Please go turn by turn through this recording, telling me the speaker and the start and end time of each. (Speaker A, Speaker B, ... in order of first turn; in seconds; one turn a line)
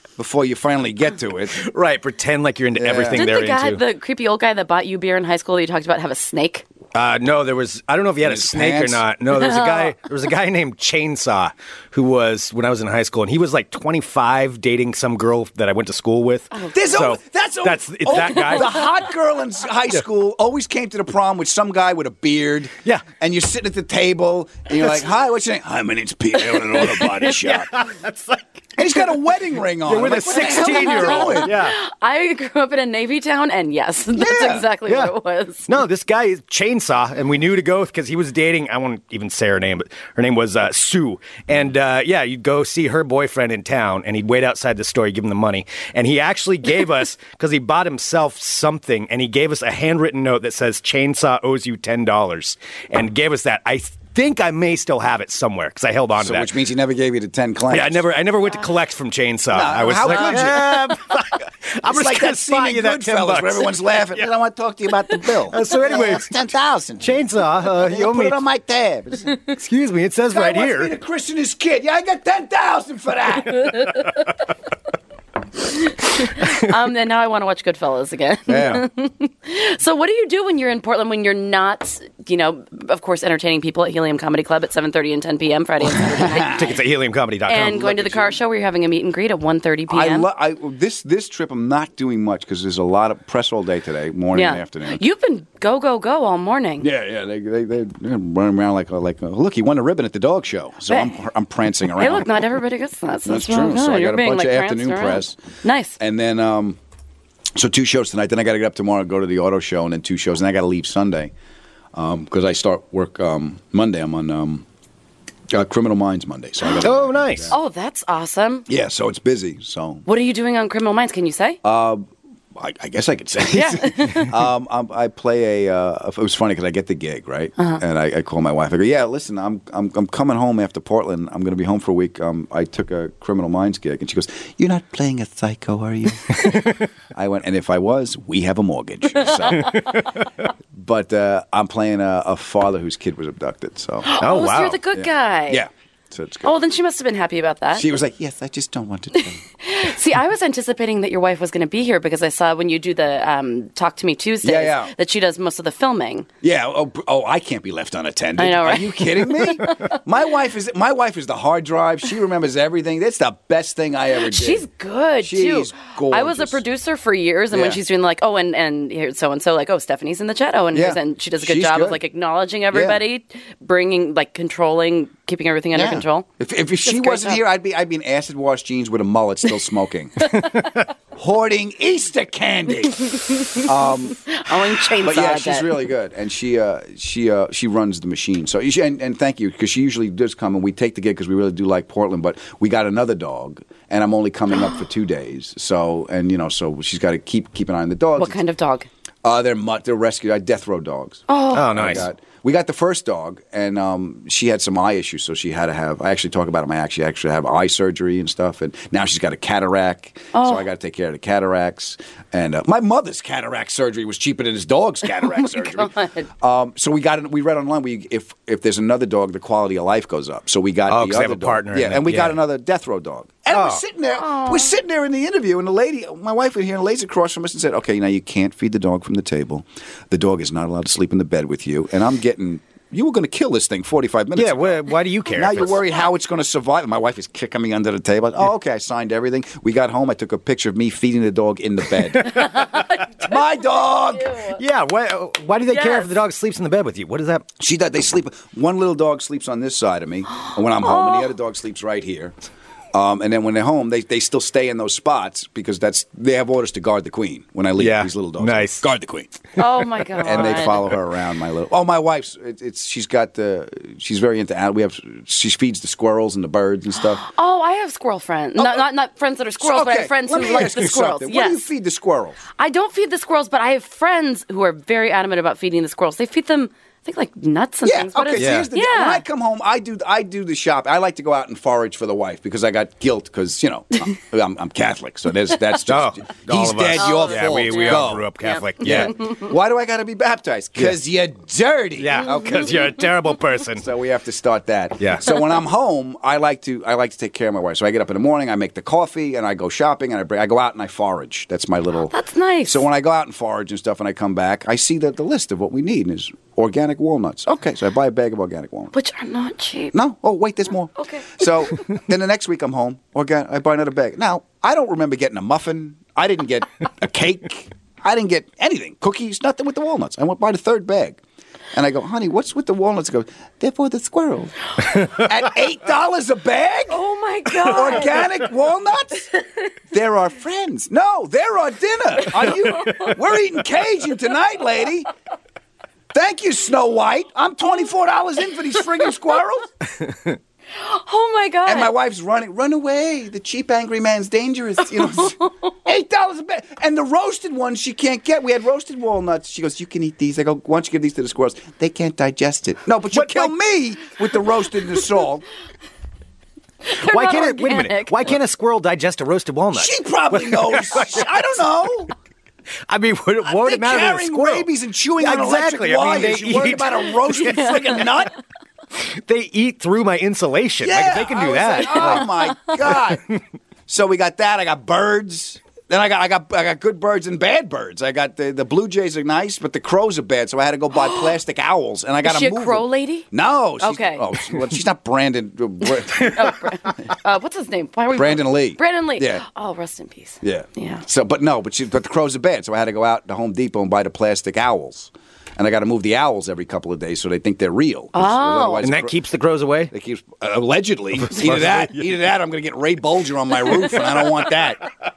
Speaker A: 0.2-1.6
Speaker B: 1.5-3.8
Speaker A: 2.8-3.3
Speaker C: 3.1-6.7
Speaker B: 6.9-18.9
Speaker A: 8.2-9.0
Speaker C: 9.3-9.9
Speaker C: 16.5-17.0
Speaker A: 16.7-27.7
Speaker C: 18.3-18.6
Speaker B: 26.4-29.2
Speaker A: 28.8-31.6
Speaker B: 29.8-31.8
Speaker C: 30.3-35.7
Speaker A: 34.2-34.7
Speaker B: 34.9-35.1
Speaker B: 35.7-56.5
Speaker A: 56.2-58.0
Speaker B: 57.7-64.3
Speaker A: 59.5-60.9
Speaker C: 60.1-60.5
Speaker A: 61.9-69.3
Speaker B: 65.4-68.4
Speaker B: 69.5-71.0
Speaker A: 70.3-74.1
Speaker C: 75.7-86.8
Speaker A: 78.5-78.9
Speaker A: 85.9-86.8
Speaker B: 86.4-88.0
Speaker C: 87.5-90.3
Speaker A: 87.7-88.4
Speaker A: 89.9-95.0
Speaker C: 94.3-96.9
Speaker A: 96.8-102.5
Speaker C: 100.9-101.2
Speaker C: 101.9-106.0
Speaker A: 103.3-105.4
Speaker A: 106.0-106.8
Speaker A: 107.6-111.3
Speaker A: 111.9-114.7
Speaker A: 115.5-117.6
Speaker B: 116.8-117.5
Speaker C: 117.5-118.7
Speaker A: 118.7-120.0
Speaker C: 120.1-121.6
Speaker A: 121.6-122.0
Speaker A: 122.6-140.1
Speaker C: 123.5-124.3
Speaker C: 127.6-127.8
Speaker B: 136.4-136.7
Speaker C: 139.3-140.0
Speaker B: 139.7-140.2
Speaker A: 140.7-144.2
Speaker C: 144.0-145.6
Speaker B: 144.2-144.8
Speaker A: 144.9-146.5
Speaker C: 146.4-147.9
Speaker A: 147.7-149.4
Speaker C: 149.2-156.3
Speaker A: 154.4-154.9
Speaker A: 156.4-164.7
Speaker C: 158.4-160.0
Speaker C: 164.2-176.3
Speaker A: 165.2-166.6
Speaker A: 167.5-167.8
Speaker A: 170.7-172.0
Speaker A: 172.7-173.0
Speaker A: 175.7-198.4
Speaker C: 176.8-177.4
Speaker C: 180.2-180.8
Speaker C: 183.1-185.9
Speaker C: 198.2-198.9
Speaker A: 199.2-244.4
Speaker C: 201.3-201.8
Speaker B: 201.5-202.1
Speaker C: 210.3-210.7
Speaker C: 215.2-216.3
Speaker B: 220.9-222.4
Speaker B: 223.5-223.8
Speaker C: 224.1-224.8
Speaker B: 234.3-235.8
Speaker C: 242.2-244.6
Speaker B: 244.6-247.5
Speaker C: 245.7-246.1
Speaker A: 247.6-252.3
Speaker C: 250.3-251.3
Speaker A: 252.9-259.3
Speaker B: 257.8-258.9
Speaker C: 259.6-260.9
Speaker A: 260.2-267.2
Speaker C: 267.2-271.6
Speaker A: 268.6-268.8
Speaker A: 269.6-272.4
Speaker C: 272.6-279.2
Speaker A: 277.8-293.0
Speaker B: 278.4-278.7
Speaker B: 285.9-289.2
Speaker C: 287.0-289.5
Speaker B: 292.0-293.9
Speaker A: 293.8-308.9
Speaker B: 295.0-295.3
Speaker C: 302.1-302.9
Speaker C: 308.9-310.0
Speaker A: 309.9-321.2
Speaker C: 311.0-311.7
Speaker A: 321.7-327.0
Speaker C: 326.9-328.3
Speaker A: 327.6-329.2
Speaker A: 329.9-335.1
Speaker C: 332.7-333.2
Speaker A: 336.1-339.7
Speaker C: 340.8-341.9
Speaker A: 341.7-355.4
Speaker C: 345.1-345.5
Speaker B: 353.1-353.5
Speaker C: 356.9-358.2
Speaker B: 356.9-361.6
Speaker A: 359.7-362.1
Speaker B: 362.9-368.0
Speaker A: 363.4-368.4
Speaker C: 367.4-368.0
Speaker B: 368.9-373.0
Speaker A: 370.8-373.2
Speaker C: 371.8-372.5
Speaker A: 373.9-386.6
Speaker C: 381.0-381.3
Speaker C: 382.2-383.3
Speaker C: 383.8-384.2
Speaker C: 385.8-391.1
Speaker A: 388.1-389.4
Speaker A: 390.4-399.2
Speaker C: 398.1-398.9
Speaker B: 398.8-399.9
Speaker A: 399.9-404.9
Speaker B: 401.2-402.0